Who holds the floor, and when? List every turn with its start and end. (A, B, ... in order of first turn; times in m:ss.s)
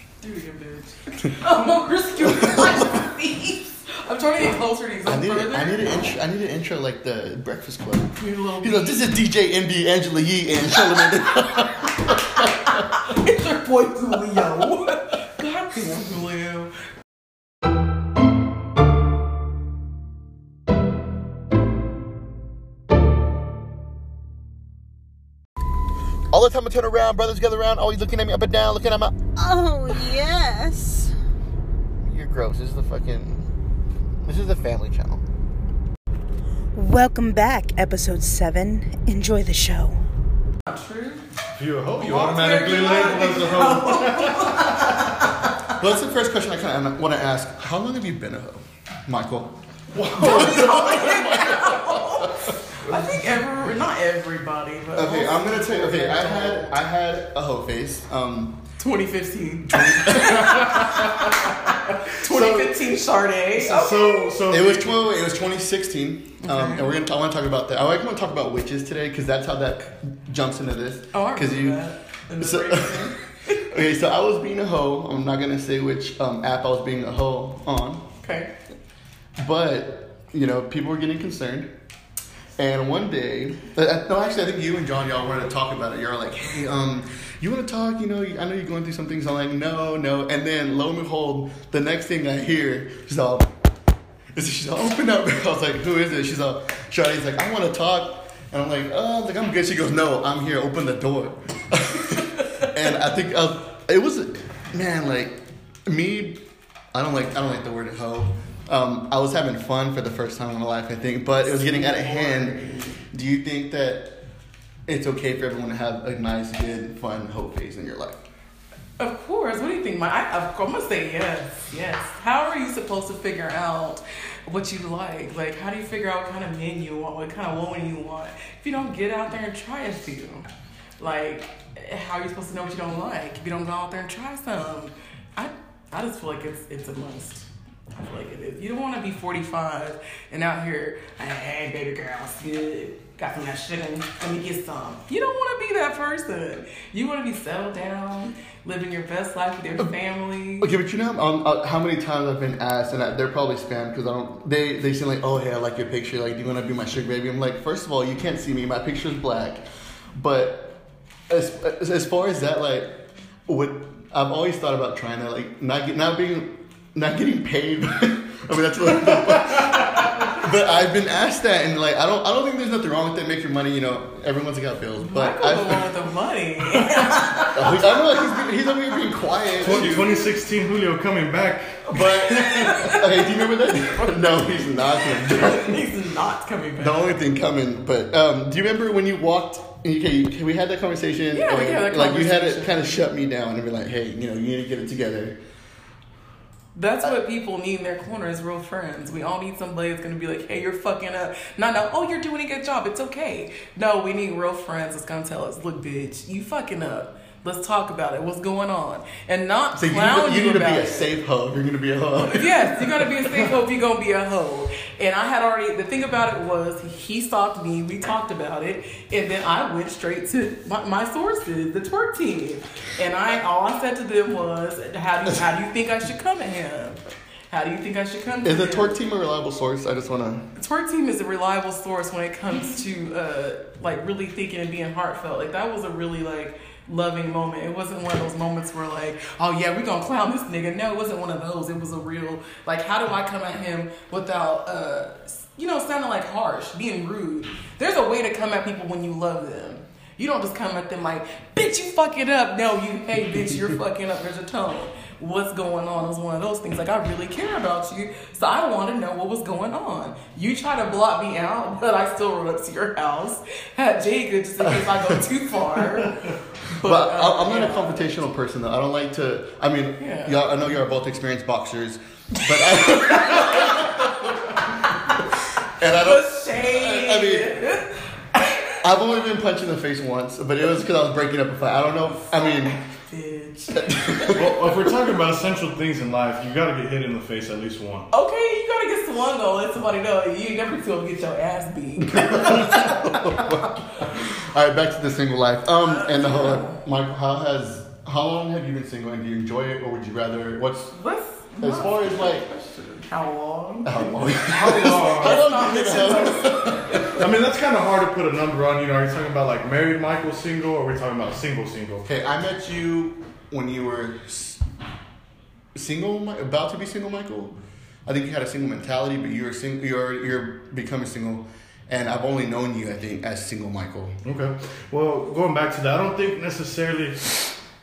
0:00.2-0:06.0 A
0:05.1-0:12.8 B
0:08.2-0:09.0 A
0:12.6-0:16.7 A
0:26.3-0:29.2 B
0:29.3-0:31.2 C
0:32.0-0:33.5 B
0:34.2-0:35.2 B
0:36.7-0:40.0 C
0:40.7-0:41.3 A
0:41.6-0:44.9 D
0:42.0-0:45.4 A
0:45.7-0:49.6 B
0:49.9-0:51.2 D
0:50.1-0:53.2 B
0:50.1-0:56.8 A
0:54.9-0:58.6 B
0:58.8-1:04.4 A
0:59.7-1:00.8 B
1:00.2-1:01.4 D
1:02.2-1:02.9 D
1:03.5-1:05.1 D
1:04.5-1:18.1 B
1:06.4-1:06.9 A
1:11.1-1:13.7 A
1:18.2-1:18.5 A
1:19.4-1:21.7 B
1:22.6-1:33.5 B
1:34.3-1:52.6 B
1:51.4-1:53.0 A
1:53.1-1:54.2 B
1:54.9-1:58.2 B
1:59.0-2:10.5 A
2:11.0-2:30.7 A
2:30.6-2:39.6 B
2:40.1-2:55.8 B
2:49.5-2:50.1 D
2:55.0-2:57.9 A
2:57.4-3:00.2 B
2:59.6-3:01.9 D
2:59.6-3:00.2 A
3:01.9-3:05.9 B
3:01.9-3:07.1 A
3:06.8-3:15.4 B
3:11.3-3:12.9 A
3:16.8-3:31.1 A
3:29.8-3:33.5 B
3:32.2-3:48.9 A
3:48.4-3:50.5 B
3:50.6-4:28.1 A
4:24.7-4:25.2 B
4:26.8-4:34.1 B
4:30.0-4:30.4 A
4:32.9-4:33.8 A
4:35.8-4:37.6 B
4:35.8-4:38.8 A
4:38.8-4:42.8 B
4:42.2-4:44.4 A
4:43.7-4:44.5 B
4:44.3-4:48.1 D
4:48.1-4:53.6 A
4:52.1-5:01.0 B
4:55.9-4:56.8 A
5:00.9-5:07.2 A
5:01.6-5:02.5 B
5:03.8-5:07.2 B
5:04.3-5:06.0 D
5:07.1-5:12.1 D
5:12.0-5:14.6 B
5:15.8-5:24.2 B
5:24.2-5:27.6 D